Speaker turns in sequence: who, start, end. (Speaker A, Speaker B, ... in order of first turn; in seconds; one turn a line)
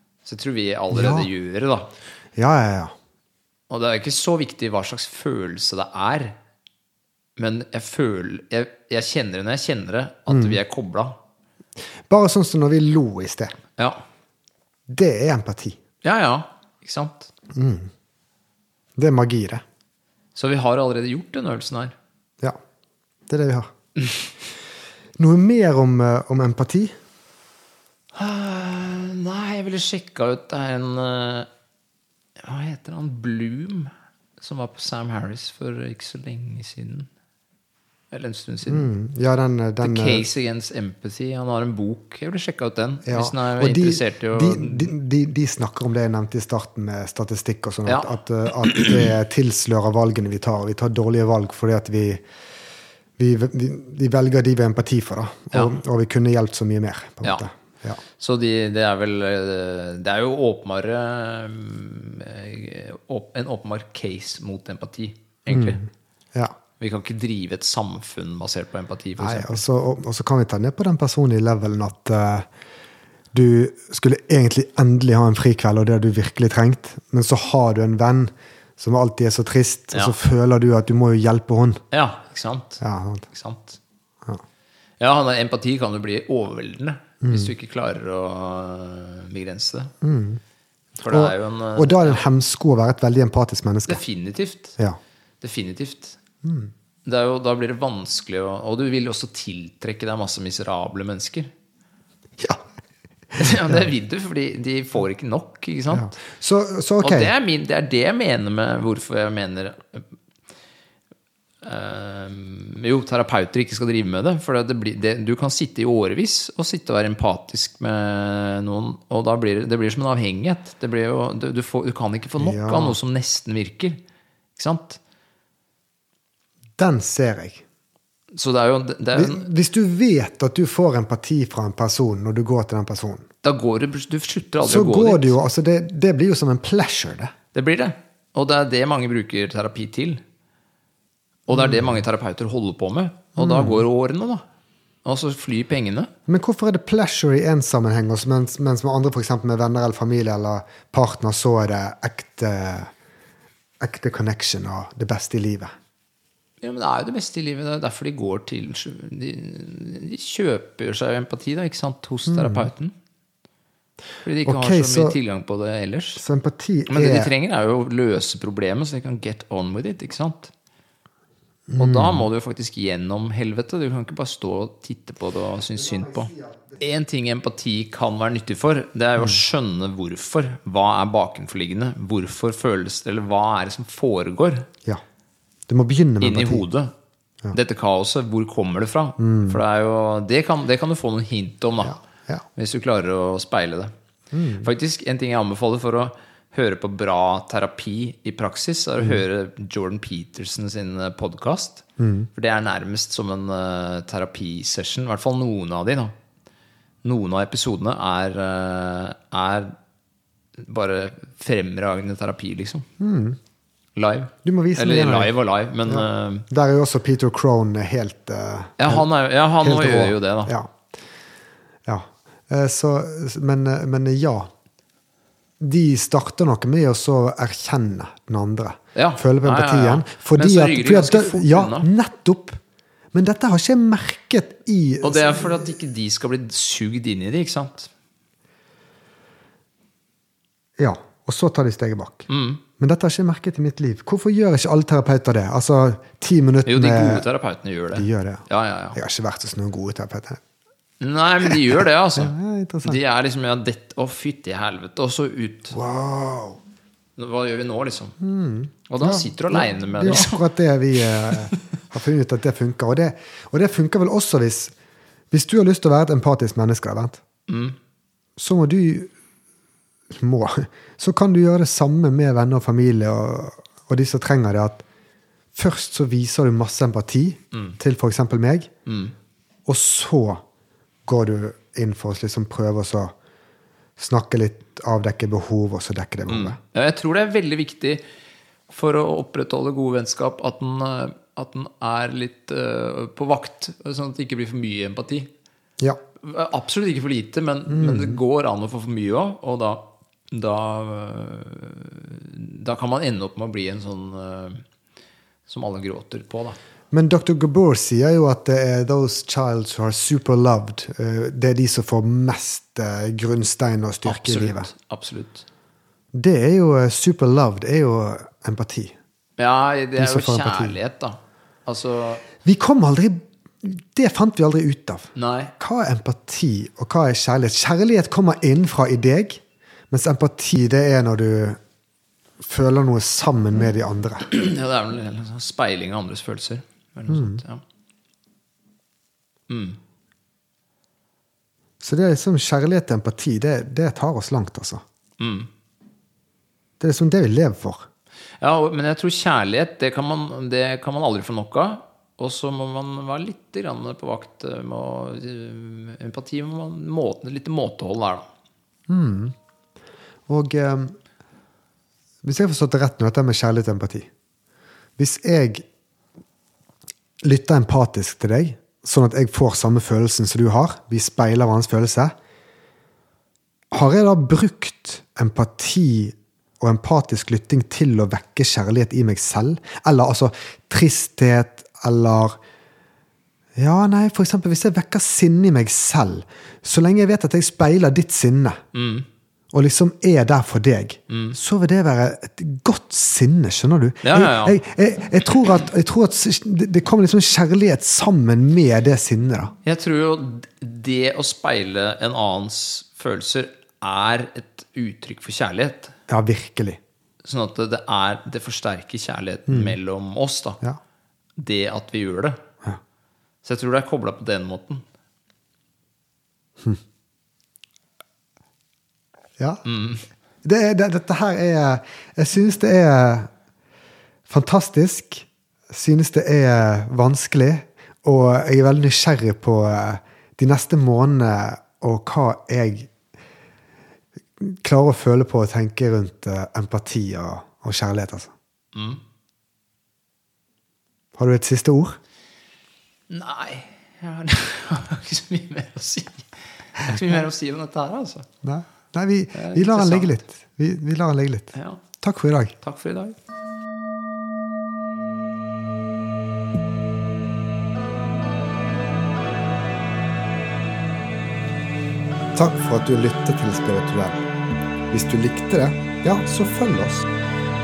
Speaker A: 0.2-1.9
Speaker B: 0.9-1.3
Speaker B: 2.4-2.9
Speaker A: 3.7-6.4
Speaker A: 7.4-11.1
Speaker B: 10.3-10.6
Speaker B: 12.1-13.6
Speaker A: 13.8-14.0
Speaker B: 14.9-15.8
Speaker A: 16.0-17.3
Speaker B: 17.5-17.9
Speaker B: 19.0-19.6
Speaker A: 20.3-21.9
Speaker B: 23.3-23.7
Speaker B: 25.2-26.9
Speaker A: 28.1-31.5
Speaker A: 32.4-37.1
Speaker A: 38.1-38.9
Speaker B: 38.6-40.2
Speaker A: 39.8-44.9
Speaker B: 43.0-52.2
Speaker A: 47.9-48.1
Speaker A: 48.7-49.0
Speaker B: 53.2-58.0
Speaker A: 58.2-65.8
Speaker B: 65.5-66.5
Speaker A: 66.8-69.6
Speaker B: 69.2-72.5
Speaker B: 73.3-81.8
Speaker A: 81.9-83.8
Speaker B: 82.8-83.3
Speaker A: 85.0-89.9
Speaker B: 87.2-87.5
Speaker B: 90.0-90.4
Speaker A: 91.0-92.2
Speaker B: 91.1-94.0
Speaker A: 93.9-94.8
Speaker A: 95.4-96.2
Speaker B: 96.4-96.7
Speaker A: 97.0-101.5
Speaker B: 103.3-103.7
Speaker A: 103.4-106.2
Speaker B: 105.9-107.3
Speaker A: 107.0-110.1
Speaker A: 111.6-124.0
Speaker B: 122.4-123.0
Speaker A: 124.5-125.0
Speaker B: 126.8-127.6
Speaker A: 128.3-129.5
Speaker B: 129.1-133.2
Speaker A: 133.4-135.4
Speaker B: 134.6-137.3
Speaker A: 137.5-140.2
Speaker A: 141.5-144.4
Speaker B: 141.5-141.9
Speaker B: 143.3-143.8
Speaker A: 145.0-146.1
Speaker B: 146.3-152.9
Speaker B: 153.8-155.7
Speaker A: 156.6-162.9
Speaker B: 162.3-162.7
Speaker A: 164.2-166.2
Speaker B: 164.4-165.2
Speaker B: 166.2-167.3
Speaker A: 166.9-170.5
Speaker B: 171.7-172.2
Speaker A: 171.8-184.7
Speaker B: 185.7-186.6
Speaker A: 186.2-186.9
Speaker A: 187.5-191.9
Speaker B: 189.2-189.6
Speaker B: 191.8-192.4
Speaker A: 192.6-193.9
Speaker B: 194.3-194.7
Speaker A: 194.6-201.8
Speaker B: 202.0-202.3
Speaker A: 202.3-206.1
Speaker A: 207.0-209.7
Speaker A: 210.6-212.9
Speaker B: 213.0-213.4
Speaker A: 213.9-216.5
Speaker B: 214.4-215.3
Speaker B: 215.8-219.1
Speaker A: 218.8-220.5
Speaker B: 219.6-220.7
Speaker B: 221.8-224.5
Speaker B: 225.6-232.6
Speaker A: 228.9-231.9
Speaker B: 233.1-235.7
Speaker A: 235.0-237.9
Speaker B: 240.8-247.2
Speaker A: 242.3-242.6
Speaker A: 246.7-249.0
Speaker B: 247.9-250.4
Speaker A: 251.0-255.7
Speaker B: 252.2-253.0
Speaker B: 255.7-256.6
Speaker A: 257.2-258.2
Speaker B: 258.2-264.7
Speaker A: 258.9-260.4
Speaker A: 261.0-261.4
Speaker B: 265.3-267.2
Speaker A: 267.5-267.8
Speaker B: 268.4-269.1
Speaker B: 270.1-274.8
Speaker B: 275.5-278.7
Speaker A: 278.9-279.1
Speaker B: 279.7-280.4
Speaker B: 281.1-283.1
Speaker B: 284.0-286.6
Speaker A: 286.3-288.0
Speaker A: 288.7-295.3
Speaker A: 296.2-304.6
Speaker B: 297.7-298.2
Speaker A: 305.5-306.6
Speaker B: 306.9-314.7
Speaker A: 314.0-315.4
Speaker B: 316.1-318.9
Speaker A: 319.4-322.3
Speaker B: 320.0-320.8
Speaker B: 322.4-331.6
Speaker A: 325.1-325.5
Speaker B: 332.4-334.3
Speaker A: 334.2-337.6
Speaker B: 337.1-337.4
Speaker A: 339.5-339.8
Speaker B: 341.8-344.8
Speaker A: 345.2-345.5
Speaker B: 346.8-347.9
Speaker A: 348.4-358.2
Speaker B: 358.9-359.3
Speaker B: 360.3-360.9
Speaker B: 362.2-364.1
Speaker B: 365.0-365.6
Speaker B: 367.2-372.1
Speaker B: 373.7-382.4
Speaker B: 383.6-388.6
Speaker A: 388.7-389.1
Speaker B: 389.5-399.5
Speaker A: 391.1-391.4
Speaker A: 394.0-394.6
Speaker A: 399.6-405.9
Speaker B: 406.1-406.8
Speaker A: 407.2-410.6
Speaker B: 409.5-409.8
Speaker A: 411.4-412.4
Speaker A: 413.4-414.8
Speaker B: 419.4-419.6
Speaker A: 419.6-420.0
Speaker B: 420.4-423.3
Speaker B: 424.3-432.9
Speaker B: 434.4-438.3
Speaker A: 438.7-439.0
Speaker B: 441.2-442.0
Speaker A: 443.1-448.3
Speaker B: 448.4-452.6
Speaker A: 449.3-450.2
Speaker A: 451.5-451.8
Speaker A: 452.6-453.2
Speaker B: 462.3-464.2
Speaker B: 464.9-467.1